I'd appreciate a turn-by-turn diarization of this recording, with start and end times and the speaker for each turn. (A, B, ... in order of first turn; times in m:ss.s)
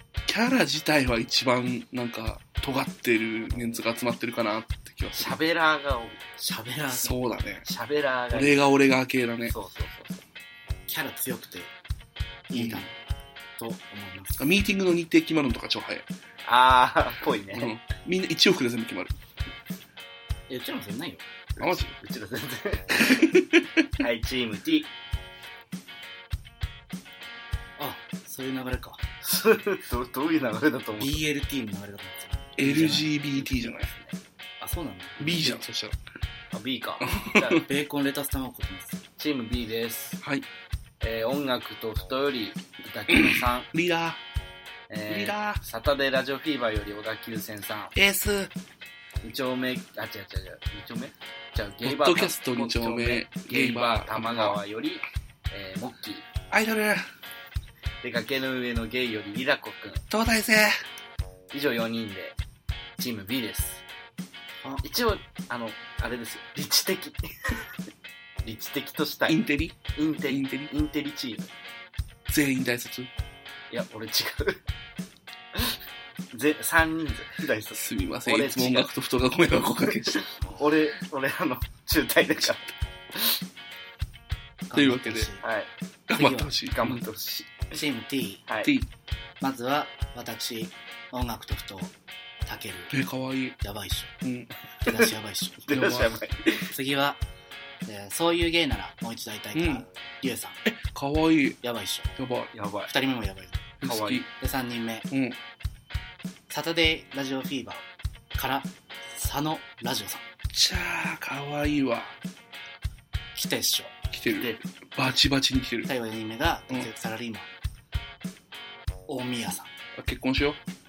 0:00.3-0:05.4 A
0:05.1-0:06.3 B
0:06.4-0:07.2 C
0:06.9-0:07.6 A
0:07.6-0:08.7 B
0:08.3-0:09.5 A
0:09.5-0:10.2 B
0:10.9-0:11.7 C
0:12.5-0:12.9 C
0:12.5-0:12.9 A
0:13.6-0:14.5 C
0:14.4-0:16.1 A
0:16.4-0:17.7 B
0:17.6-0:19.1 A
0:20.5-0:21.3 C
0:21.6-0:21.9 A
0:21.6-0:23.3 B
0:23.0-0:23.7 A
0:24.0-0:24.9 B
0:27.8-0:29.0 C
0:29.2-0:31.2 B
0:31.0-0:33.1 C
0:32.6-0:33.9 A
0:33.4-0:34.2 B
0:34.6-0:35.6 C
0:35.2-0:36.0 A
0:36.5-0:37.6 B
0:37.1-0:37.6 A
0:37.6-0:39.0 C
0:39.2-0:40.2 B
0:40.2-0:40.5 A
0:41.0-0:43.7 B
0:43.1-0:44.2 A
0:44.9-0:48.0 B
0:45.1-0:45.6 A
0:48.0-0:48.5 A
0:49.2-0:56.3 B
0:51.8-0:54.6 A
0:56.5-0:57.1 A
0:58.0-1:00.0 B
1:00.1-1:00.8 A
1:01.5-1:02.4 B
1:03.0-1:03.8 B
1:04.6-1:04.8 C
1:04.8-1:07.6 B
1:08.4-1:09.4 B
1:09.3-1:10.7 A
1:10.0-1:11.5 B
1:12.3-1:13.1 A
1:13.7-1:14.6 B
1:16.3-1:18.9 B
1:17.8-1:20.2 A
1:20.1-1:23.4 B
1:24.7-1:25.4 C
1:24.7-1:25.3 A
1:25.4-1:25.7 B
1:26.1-1:27.0 A
1:26.1-1:26.6 C
1:26.7-1:27.8 B
1:27.7-1:28.4 C
1:28.5-1:28.7 B
1:29.4-1:32.9 C
1:32.9-1:33.6 A
1:33.6-1:34.1 C
1:34.2-1:34.5 A
1:34.8-1:35.8 C
1:35.7-1:36.7 B
1:35.7-1:36.1 A
1:36.7-1:37.2 C
1:37.9-1:40.6 C
1:39.6-1:39.8 A
1:40.7-1:41.6 A
1:41.6-1:42.2 C
1:42.2-1:42.5 A
1:42.5-1:42.9 B
1:42.9-1:43.7 C
1:43.8-1:44.3 A
1:43.8-1:44.3 B
1:44.4-1:45.1 C
1:45.1-1:45.4 A
1:46.5-1:50.3 C
1:50.5-1:52.2 A
1:53.4-1:53.9 C
1:54.1-1:55.9 A
1:54.3-1:54.6 B
1:55.9-1:57.5 C
1:59.1-1:59.7 C
2:00.0-2:00.6 A